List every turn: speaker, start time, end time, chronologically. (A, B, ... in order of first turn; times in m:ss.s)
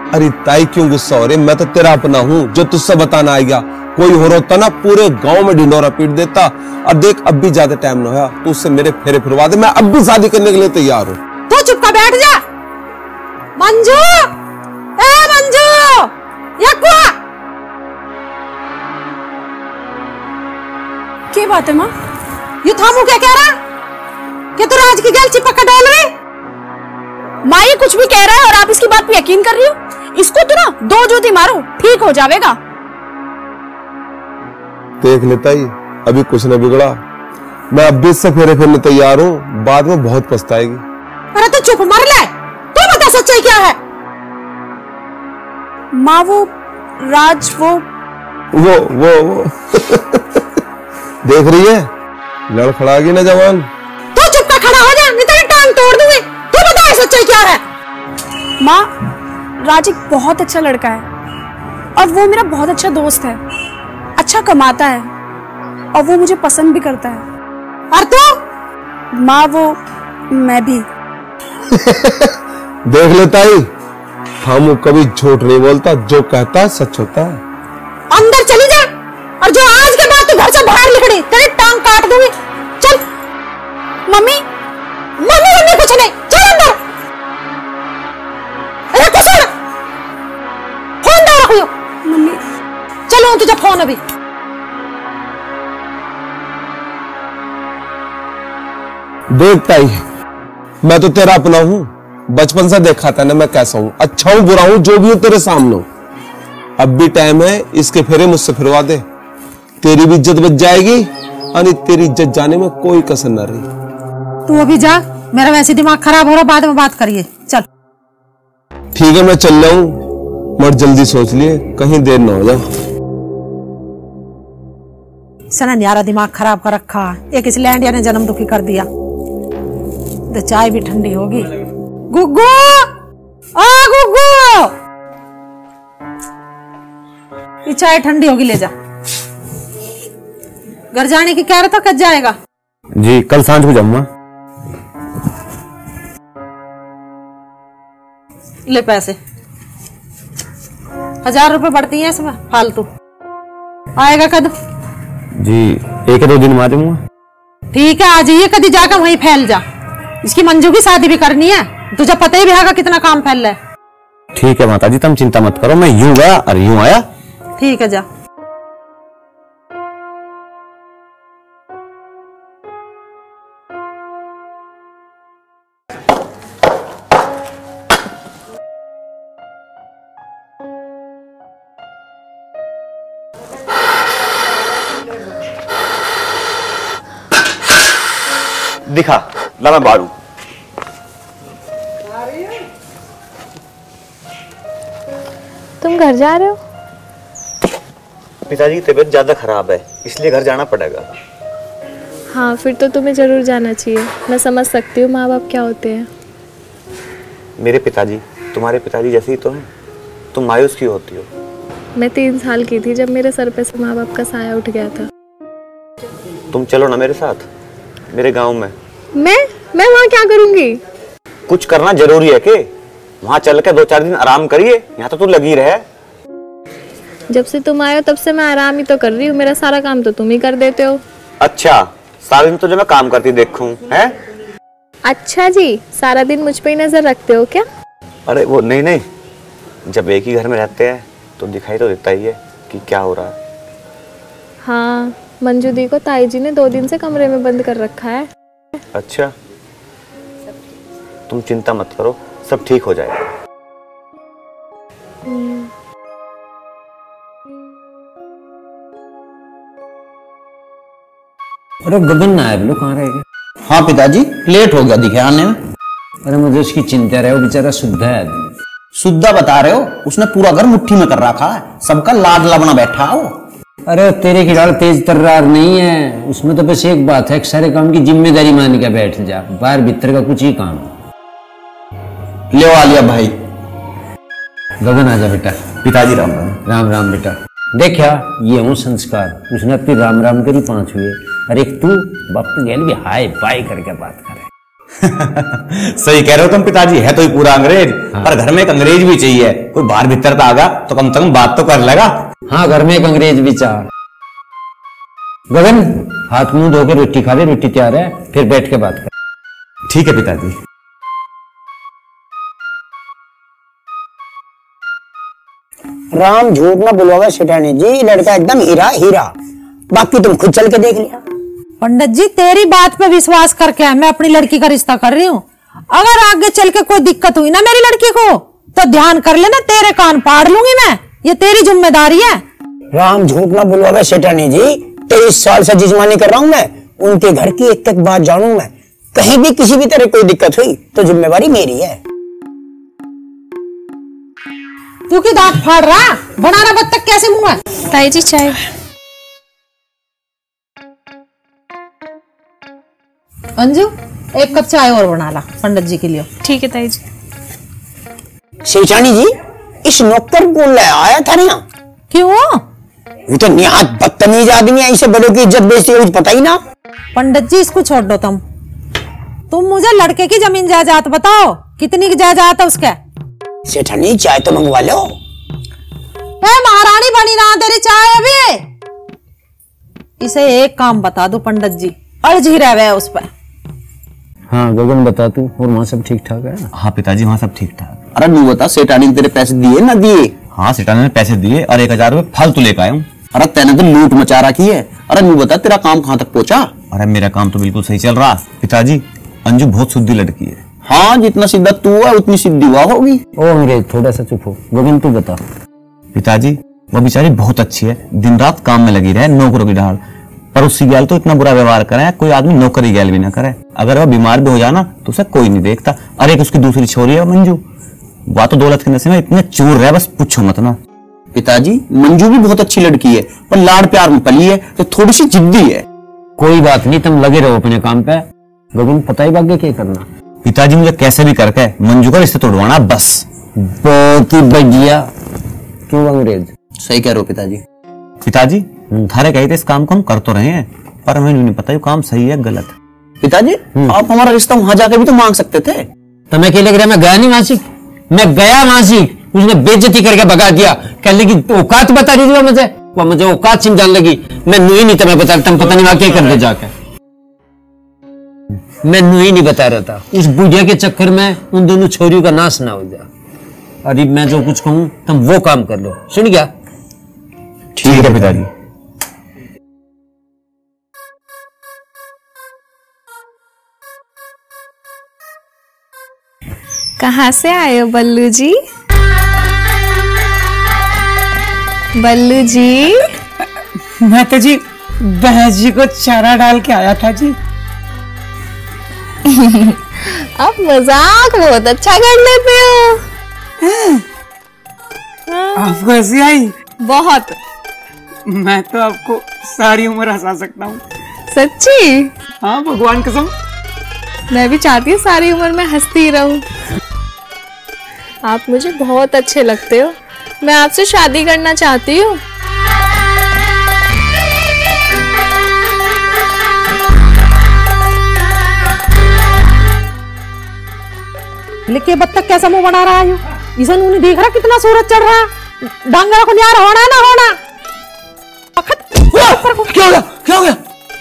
0:00.1-0:11.2 A
0:11.5-0:12.4 B
0:13.6-0:14.3 B
0:15.0-0:17.2 B
0:21.3-0:21.9 C
0:22.6-0:23.6 B
0:24.6-0:26.1 B
0:27.4-0:32.6 C
0:35.0-0:37.0 A
0:37.7-0:40.8 A
0:41.3-0:43.8 B
0:45.9-0:47.8 C
0:48.5-0:50.4 A
0:51.2-0:51.9 A
0:52.5-0:53.7 A
0:54.1-0:57.6 B
0:58.6-0:58.9 C
0:59.6-1:01.0 C
1:02.0-1:03.4 C
1:04.2-1:05.1 C
1:05.9-1:07.2 C
1:07.9-1:08.4 B
1:09.1-1:10.9 C
1:11.7-1:12.3 A
1:12.9-1:13.7 A
1:14.4-1:17.4 A
1:18.1-1:23.0 B
1:24.1-1:24.4 C
1:25.2-1:26.8 B
1:28.9-1:29.5 B
1:31.0-1:31.7 B
1:32.0-1:32.4 C
1:33.1-1:34.0 B
1:39.3-1:40.0 A
1:40.8-1:45.8 A
1:46.8-1:49.0 A
1:49.8-1:53.7 A
1:54.5-1:57.6 B
1:58.9-2:00.0 A
2:00.6-2:02.6 A
2:05.5-2:08.9 B
2:10.3-2:11.5 B
2:12.1-2:12.9 B
2:13.6-2:14.7 B
2:17.6-2:18.7 B
2:20.9-2:22.4 B
2:23.0-2:24.1 D
2:28.7-2:29.2 B
2:31.2-2:32.9 B
2:34.0-2:34.5 B
2:35.4-2:37.0 D
2:37.7-2:39.6 B
2:40.2-2:43.6 B
2:44.3-2:47.0 D
2:47.6-2:48.0 B
3:08.9-3:10.1 D
3:15.8-3:16.6 E
3:18.4-3:21.1 D
3:22.3-3:26.1 E
3:27.6-3:29.7 D
3:30.3-3:31.3 D
3:32.0-3:35.1 E
3:36.5-3:37.5 D
3:38.1-3:38.7 D
3:39.1-3:40.8 E
3:41.5-3:42.7 D
3:43.2-3:45.8 D
3:47.3-3:51.0 E
3:51.4-3:54.2 D
3:55.1-3:57.6 E
3:58.3-3:59.0 D
3:59.8-4:03.4 D
4:04.6-4:08.3 E
4:08.9-4:09.3 D
4:11.3-4:13.3 D
4:15.2-4:15.7 E
4:21.8-4:23.2 F
4:23.6-4:25.6 G
4:26.2-4:28.5 F
4:28.9-4:33.4 G
4:33.9-4:40.9 F
4:42.5-4:43.3 G
4:44.8-4:45.7 F
4:45.8-4:46.6 D
4:46.6-4:54.5 F
4:55.0-5:02.2 D
5:02.5-5:03.9 F
5:05.5-5:09.1 F
5:09.9-5:10.6 D
5:16.1-5:19.3 H
5:19.9-5:21.2 H
5:21.8-5:32.4 B
5:32.9-5:42.0 H
5:45.1-5:47.6 B
5:47.8-5:48.6 E
5:53.6-5:56.3 B
5:56.4-5:57.0 E
5:58.6-6:01.6 H
6:02.1-6:02.6 B
6:03.3-6:06.6 H
6:07.1-6:08.4 B
6:09.5-6:13.0 B
6:13.7-6:15.1 H
6:16.4-6:18.6 B
6:20.2-6:23.3 B
6:24.5-6:26.7 F
6:26.7-6:28.0 D
6:28.1-6:30.3 G
6:30.5-6:33.1 D
6:33.3-6:36.7 G
6:36.9-6:40.6 D
6:40.8-6:43.2 G
6:43.4-6:45.4 F
6:46.1-6:50.0 D
6:50.5-6:57.6 D
6:58.3-7:00.8 D
7:01.3-7:05.8 G
7:06.4-7:10.1 F
7:10.4-7:13.2 D
7:13.6-7:15.1 F
7:15.9-7:16.5 F
7:16.8-7:17.6 G
7:18.2-7:22.7 D
7:23.2-7:25.8 G
7:26.3-7:36.7 F
7:38.8-7:43.1 F
7:43.8-7:46.5 F
7:47.8-7:48.5 D
7:57.0-7:58.5 E
8:02.0-8:03.1 E
8:04.0-8:07.4 I
8:09.3-8:13.0 E
8:13.6-8:14.0 I
8:15.3-8:15.8 E
8:15.6-8:16.5 I
8:16.8-8:17.4 E
8:18.3-8:20.8 I
8:21.3-8:22.1 E
8:22.4-8:23.3 I
8:24.3-8:26.4 E
8:28.2-8:32.2 E
8:41.7-8:47.4 B
8:48.6-8:49.8 B
8:49.7-8:50.6 I